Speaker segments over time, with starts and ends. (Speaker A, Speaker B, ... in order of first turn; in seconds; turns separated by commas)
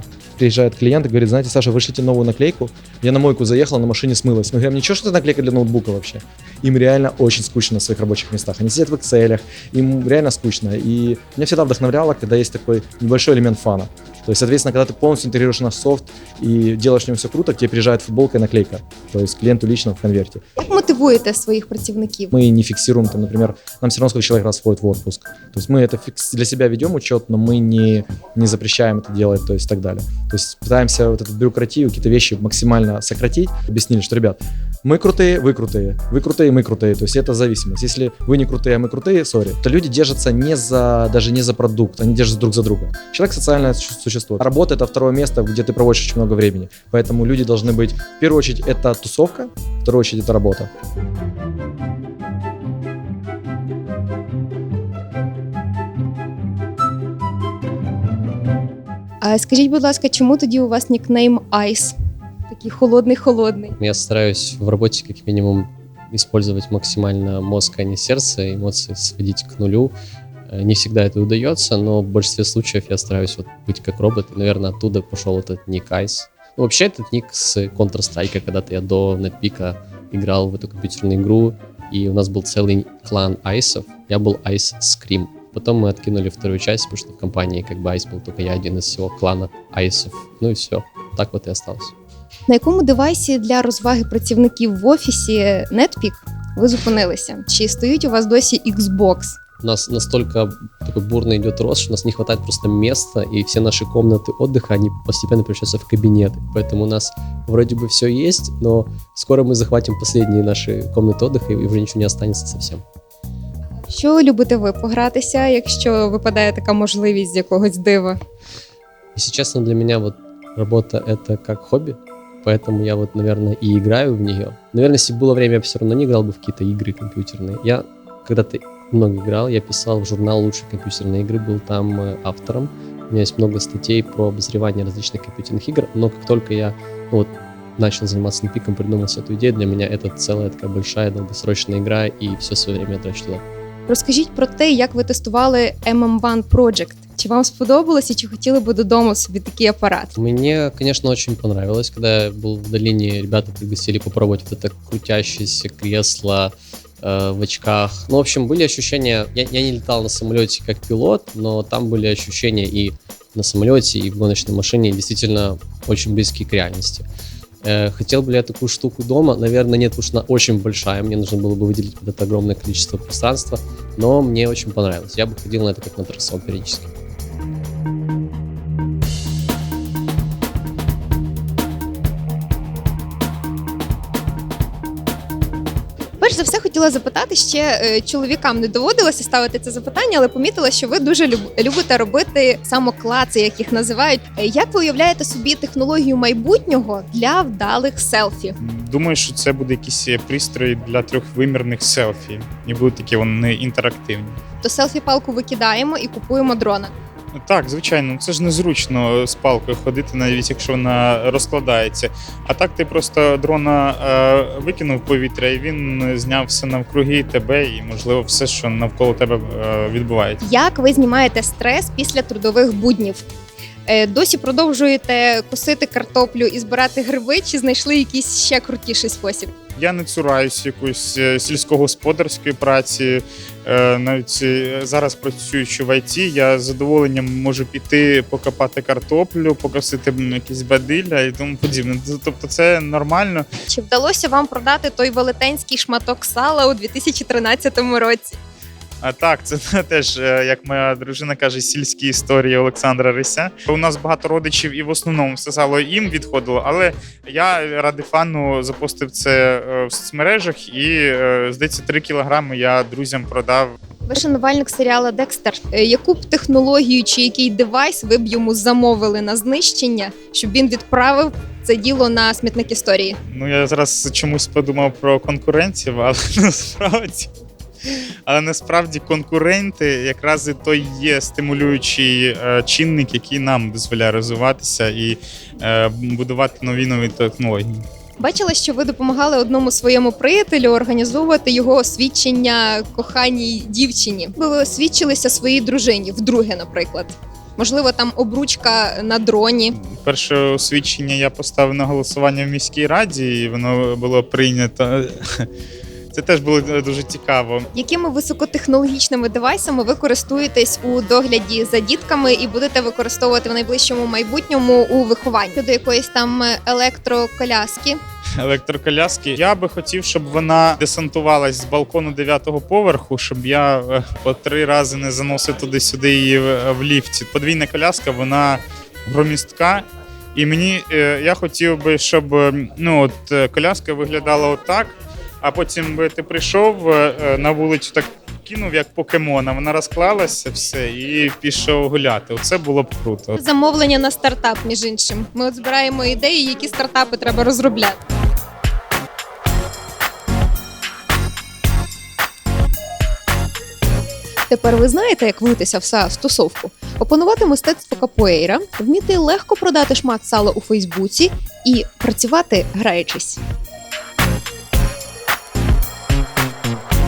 Speaker A: 0.4-20.4, Speaker B: 20.6-22.3, Speaker A: 22.3-50.7, Speaker B: 59.2-61.9, Speaker B: 62.5-63.8, Speaker C: 63.8-70.0, Speaker C: 70.5-91.9, Speaker B: 92.5-99.4, Speaker C: 99.6-112.8, Speaker B: 113.9-118.2, Speaker C: 119.1-143.4, Speaker B: 143.9-150.1, Speaker C: 150.2-167.1, Speaker C: 167.6-176.9, Speaker B: 186.2-198.6, Speaker D: 198.6-204.4, Speaker B: 204.6-206.9, Speaker D: 207.3-220.4, Speaker B: 220.4-223.2, Speaker B: 223.9-229.5, Speaker D: 229.8-243.4, Speaker B: 243.7-248.4, Speaker D: 249.0-263.7, Speaker B: 264.1-273.2, Speaker D: 273.3-277.3, Speaker D: 278.2-287.8, Speaker B: 288.2-299.8, Speaker D: 299.8-305.5, Speaker D: 306.1-307.6, Speaker B: 307.7-318.0, Speaker D: 318.4-343.3, Speaker B: 343.4-348.0, Speaker B: 354.5-363.4